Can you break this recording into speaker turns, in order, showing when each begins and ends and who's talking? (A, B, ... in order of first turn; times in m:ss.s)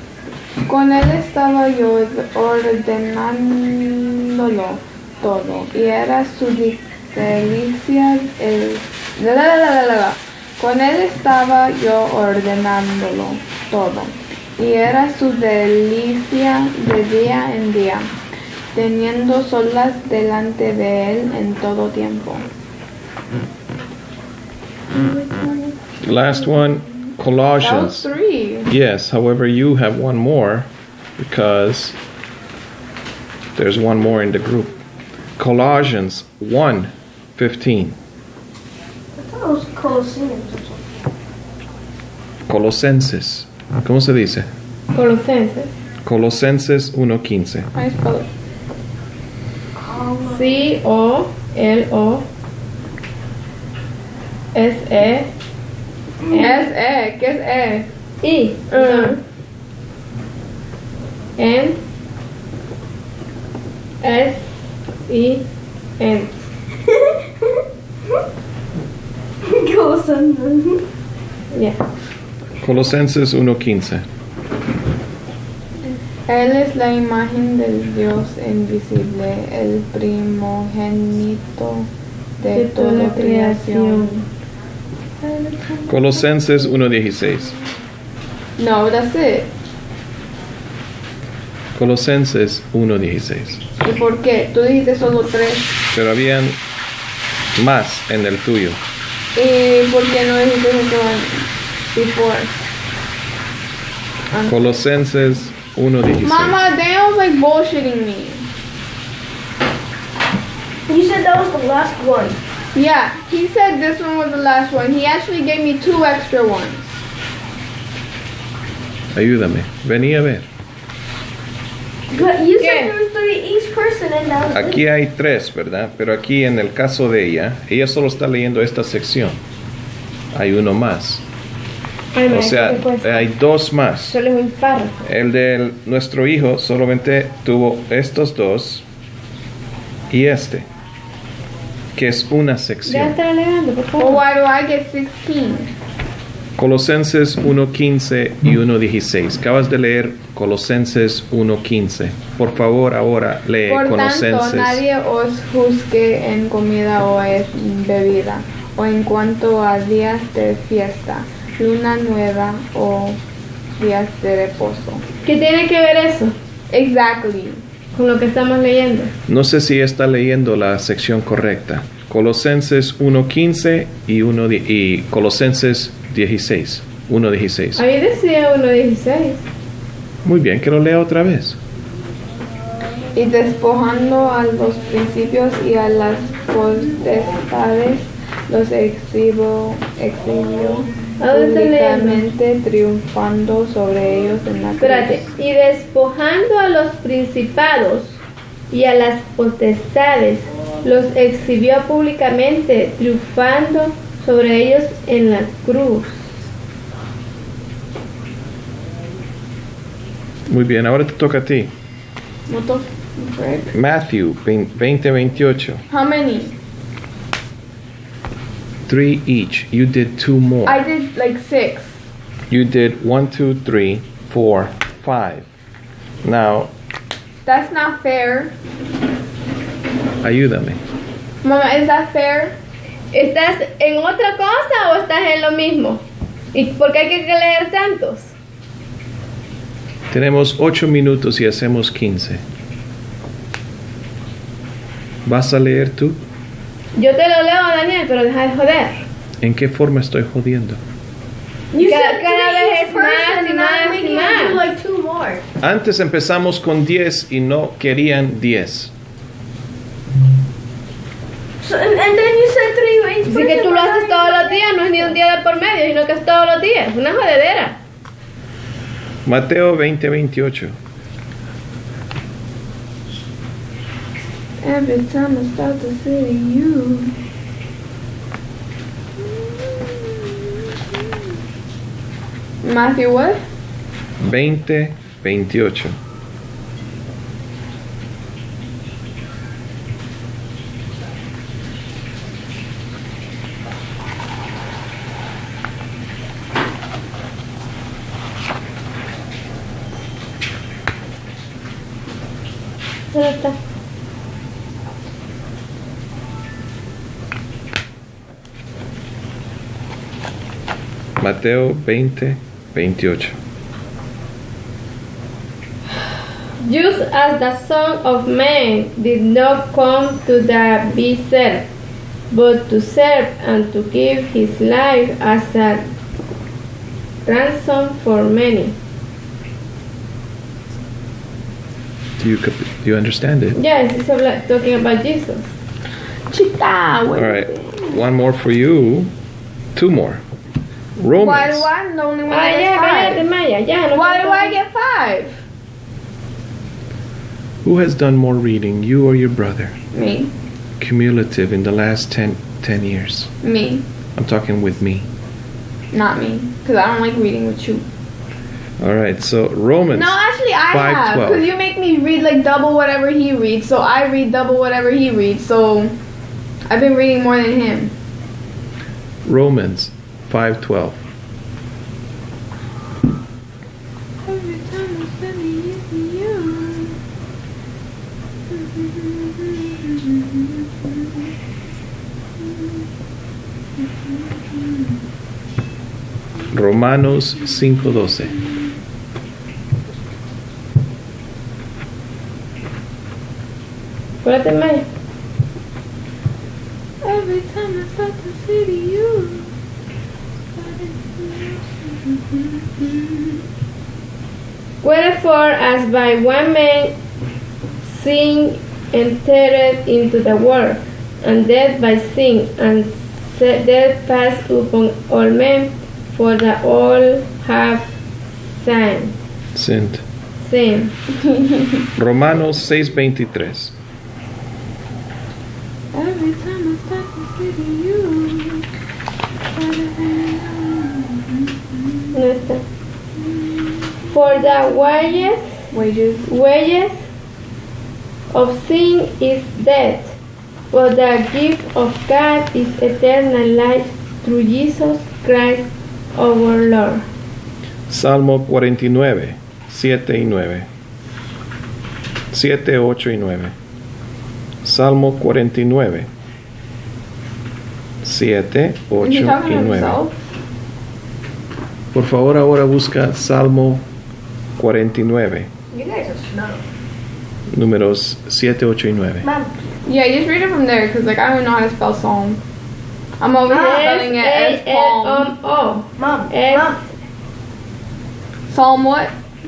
0:00.6-0:18.1 A
0:18.7-0:22.5 A
0:24.9-0:28.7 A
0:26.0-0:28.1 B
0:28.7-0:32.0 B
0:33.5-0:34.7 B
0:35.4-0:38.0 B
0:39.2-0:40.8 C
0:42.5-0:44.5 B
0:44.9-0:45.7 D
0:46.0-0:47.7 B
0:47.7-0:48.3 A
0:49.8-0:50.7 C
0:50.2-0:52.2 D
0:54.5-0:55.3 D
0:56.3-0:56.7 D
0:56.3-0:57.9 A
0:58.2-0:59.2 D
0:58.7-0:59.2 A
1:01.4-1:01.8 D
1:04.0-1:04.5 D
1:05.1-1:05.4 D
1:06.0-1:06.4 D
1:06.8-1:07.6 C
1:09.4-1:10.8 C
1:11.5-1:11.8 D
1:12.6-1:14.0 B
1:16.3-1:21.9 A
1:22.4-1:24.2 A
1:22.5-1:24.2 D
1:25.2-1:26.2 A
1:25.9-1:27.6 B
1:28.6-1:29.5 A
1:31.7-1:33.6 B
1:33.8-1:35.8 A
1:35.9-1:36.6 B
1:37.6-1:38.8 B
1:39.3-1:42.6 A
1:44.3-1:44.6 A
1:44.4-1:46.6 B
1:46.2-1:48.5 A
1:50.9-1:52.4 C
1:52.7-1:57.0 A
1:59.1-2:00.5 B
2:02.1-2:04.8 C
2:02.6-2:02.9 D
2:04.5-2:09.4 B
2:10.3-2:11.2 B
2:12.1-2:13.3 D
2:12.3-2:14.2 B
2:14.0-2:14.9 D
2:15.0-2:18.8 B
2:20.1-2:20.7 B
2:21.9-2:23.1 B
2:22.8-2:24.2 D
2:24.0-2:25.7 A
2:26.6-2:34.8 B
2:33.7-2:43.2 A
2:43.8-2:45.0 A
2:45.2-2:46.3 D
2:46.7-2:47.6 A
2:47.9-2:49.1 D
2:49.3-2:57.8 B
2:57.8-2:59.4 D
3:00.2-3:01.6 B
3:03.1-3:15.2 A
3:11.2-3:12.2 D
3:14.8-3:18.2 D
3:18.7-3:26.3 D
3:30.5-3:31.7 B
3:32.5-3:33.7 A
3:33.7-3:35.8 B
3:35.9-3:36.5 A
3:38.9-3:40.8 B
3:40.6-3:41.9 A
3:42.5-3:45.4 B
3:46.2-3:46.7 B
3:47.4-3:48.5 A
3:50.2-3:50.8 B
3:51.4-3:52.6 A
3:53.1-3:56.0 D
3:56.5-3:58.3 D
4:00.1-4:02.4 B
4:05.2-4:06.2 B
4:06.9-4:09.0 D
4:09.4-4:10.8 B
4:11.7-4:15.4 C
4:11.8-4:14.6 D
4:15.6-4:18.9 B
4:21.6-4:25.2 C
4:23.2-4:27.8 D
4:29.2-4:30.8 B
4:34.6-4:37.1 A
4:39.3-4:40.2 A
4:42.6-4:43.4 A
4:44.2-4:46.0 B
5:03.1-5:03.6 D
5:11.2-5:13.4 B
5:16.6-5:21.7 D
5:22.3-5:25.9 D
5:27.2-5:28.7 D
5:32.2-5:33.6 B
5:33.5-5:35.5 D
5:36.3-5:38.0 A
5:37.1-5:39.1 B
5:39.7-5:40.2 B
5:41.0-5:41.7 B
5:41.2-5:43.2 A
5:42.3-5:44.6 D
5:43.9-5:45.4 A
5:47.6-5:49.8 B
5:49.9-5:50.3 A
5:50.8-5:53.3 B
5:53.4-5:53.8 A
5:54.2-5:55.1 B
5:55.9-5:57.8 A
5:58.8-6:00.2 B
5:59.9-6:05.9 A
6:00.7-6:01.5 B
6:06.7-6:07.9 A
6:09.2-6:11.0 B
6:14.2-6:17.0 A
6:18.5-6:20.9 A
6:26.5-6:28.3 B
6:34.2-6:34.8 D
6:37.0-6:39.5 A
6:40.5-6:43.3 A
6:44.8-6:46.9 D
6:47.8-6:57.9 D
6:58.4-6:59.1 D
6:59.5-7:00.0 B
7:00.4-7:00.9 D
7:01.3-7:01.7 A
7:02.0-7:03.7 B
7:05.9-7:08.6 A
7:09.5-7:12.1 A
7:12.1-7:12.6 D
7:13.3-7:14.9 A
7:14.1-7:15.7 D
7:15.7-7:16.3 A
7:16.3-7:17.0 D
7:18.3-7:20.2 D
7:20.7-7:27.0 D
7:27.9-7:30.7 B
7:32.3-7:33.5 B
7:34.6-7:36.1 B
7:38.0-7:40.0 B
7:39.0-7:40.1 A
7:41.9-7:43.8 B
7:44.6-7:45.5 B
7:45.7-7:46.6 C
7:47.5-7:49.3 B
7:49.2-7:49.5 C
7:49.8-7:52.4 A
7:53.2-7:55.3 A
7:53.5-7:56.9 D
7:53.5-7:54.0 C
7:56.0-7:56.8 C
7:58.5-7:59.1 A